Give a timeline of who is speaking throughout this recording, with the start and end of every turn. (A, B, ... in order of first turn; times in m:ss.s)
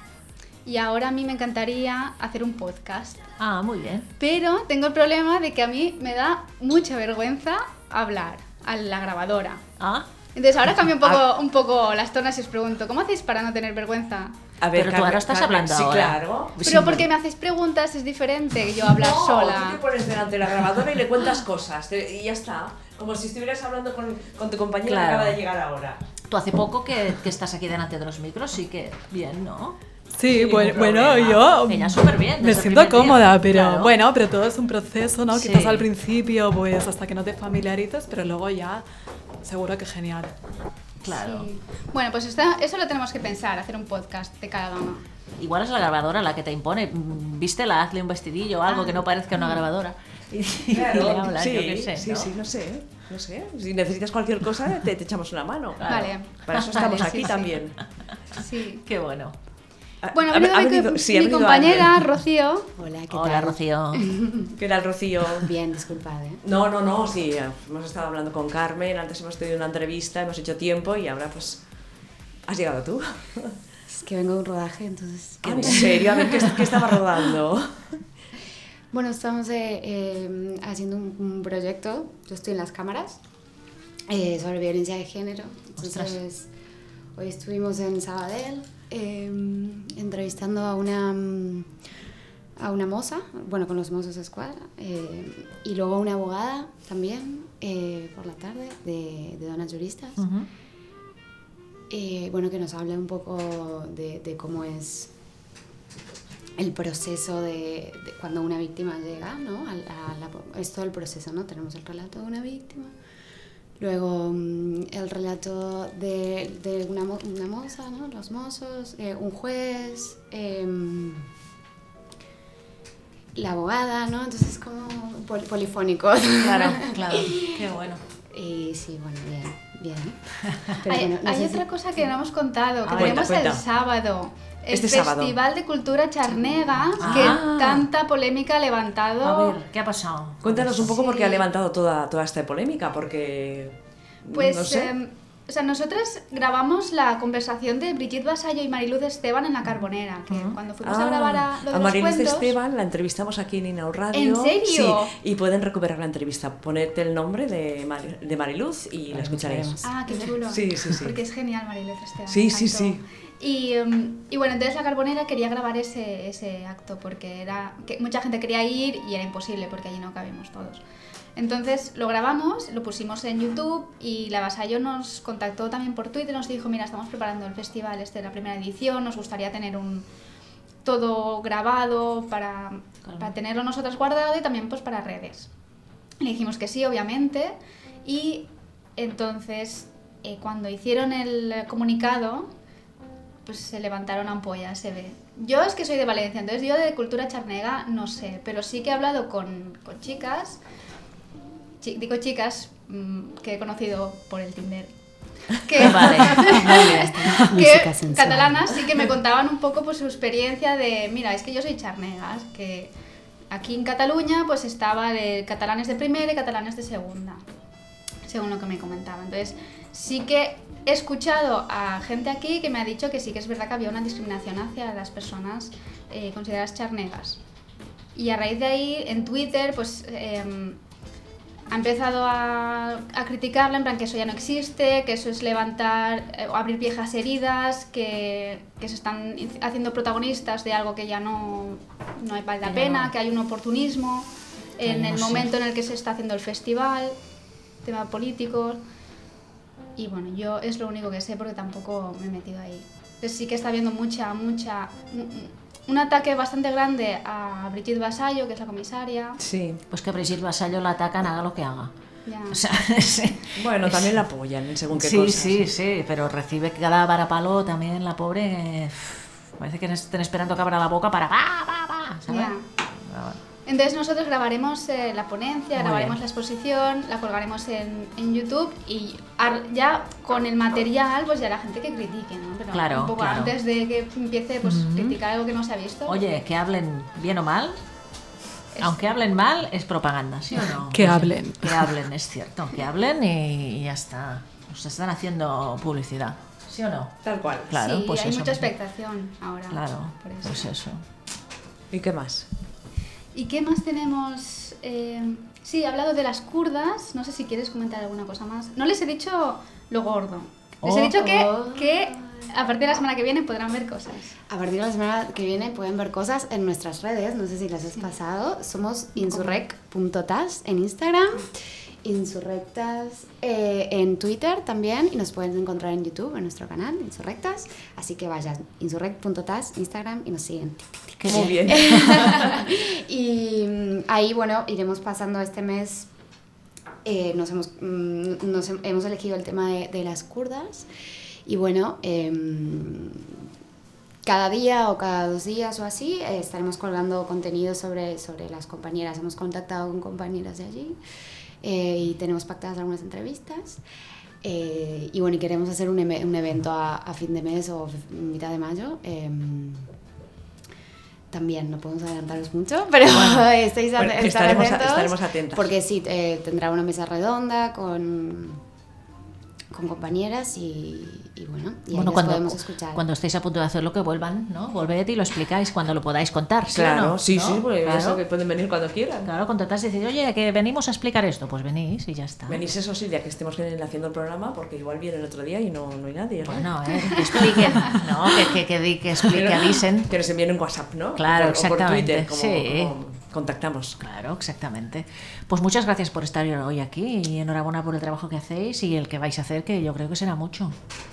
0:00.7-0:03.2 A
0:03.4-0:04.1 B
0:04.2-0:09.6 A
0:09.8-0:10.1 B
0:10.4-0:14.4 A
0:14.6-0:16.7 C
0:14.7-0:17.1 B
0:16.6-0:19.8 A
0:18.9-0:26.0 C
0:24.8-0:25.4 B
0:26.3-0:29.8 B
0:30.1-0:38.8 D
0:30.3-0:31.2 C
0:30.5-0:33.9 B
0:35.3-0:35.9 B
0:39.4-0:40.3 D
0:41.0-0:41.5 B
0:41.1-0:45.0 A
0:45.4-0:52.3 B
0:48.7-0:49.6 A
0:50.7-0:57.8 C
0:55.8-0:57.3 B
0:55.9-0:57.4 A
0:58.3-0:58.8 A
0:58.8-0:59.3 B
1:00.0-1:02.1 C
1:00.1-1:02.7 A
1:02.8-1:04.5 E
1:03.1-1:04.1 B
1:04.6-1:05.5 C
1:05.4-1:06.4 E
1:06.4-1:11.6 C
1:12.5-1:13.5 C
1:13.9-1:16.7 E
1:15.4-1:17.8 C
1:18.9-1:23.2 E
1:24.1-1:26.5 E
1:25.8-1:26.2 B
1:27.2-1:31.7 E
1:32.6-1:40.2 E
1:40.2-1:40.5 B
1:41.9-1:45.1 E
1:46.6-1:52.9 E
1:53.8-2:01.2 E
2:03.3-2:07.7 E
2:06.4-2:08.0 B
2:08.3-2:11.6 E
2:10.9-2:19.6 A
2:12.8-2:13.3 B
2:12.9-2:13.6 C
2:14.7-2:15.4 C
2:17.0-2:17.4 B
2:17.0-2:17.9 C
2:19.2-2:20.9 B
2:20.4-2:24.9 C
2:20.9-2:21.5 A
2:24.3-2:32.6 A
2:30.8-2:39.7 C
2:34.1-2:35.1 A
2:39.1-2:40.2 E
2:39.8-2:50.8 A
2:40.4-2:41.2 C
2:42.3-2:43.0 C
2:51.4-3:00.1 A
3:00.8-3:05.5 A
3:06.2-3:12.5 A
3:13.4-3:20.6 A
3:21.8-3:24.9 A
3:25.5-3:32.9 A
3:25.8-3:27.4 B
3:27.3-3:28.9 E
3:33.5-3:37.4 A
3:38.3-3:47.4 A
3:48.2-3:50.8 A
3:51.7-4:07.2 A
4:02.6-4:03.1 B
4:04.8-4:05.5 B
4:07.8-4:08.8 A
4:10.0-4:19.4 A
4:19.4-4:19.8 C
4:19.9-4:21.9 B
4:22.3-4:22.6 A
4:22.5-4:24.2 B
4:23.6-4:25.7 C
4:24.9-4:33.4 B
4:32.3-4:32.6 A
4:33.7-4:46.3 A
4:35.8-4:36.2 B
4:42.7-4:43.6 B
4:44.6-4:45.2 B
4:46.1-4:47.8 B
4:48.8-4:49.2 A
4:48.8-4:57.1 B
4:50.9-4:51.8 D
4:57.2-4:57.8 C
4:57.7-4:58.7 B
4:57.7-5:00.7 A
4:59.7-5:01.0 B
5:01.9-5:02.5 C
5:03.3-5:14.3 A
5:10.8-5:11.2 B
5:11.2-5:12.5 E
5:14.5-5:21.5 E
5:19.2-5:19.6 A
5:22.0-5:36.1 E
5:31.2-5:32.3 B
5:31.3-5:32.6 C
5:37.0-5:40.9 E
5:41.4-5:43.4 E
5:44.2-5:51.0 E
5:51.6-5:53.8 E
5:54.4-5:59.9 E
6:01.3-6:08.6 E
6:03.2-6:03.4 B
6:04.0-6:05.7 C
6:09.7-6:13.0 E
6:11.9-6:18.2 B
6:16.7-6:19.3 C
6:19.2-6:22.6 B
6:22.5-6:27.6 C
6:26.4-6:30.1 B
6:26.9-6:27.8 A
6:29.2-6:34.0 C
6:31.2-6:32.9 B
6:34.0-6:40.7 B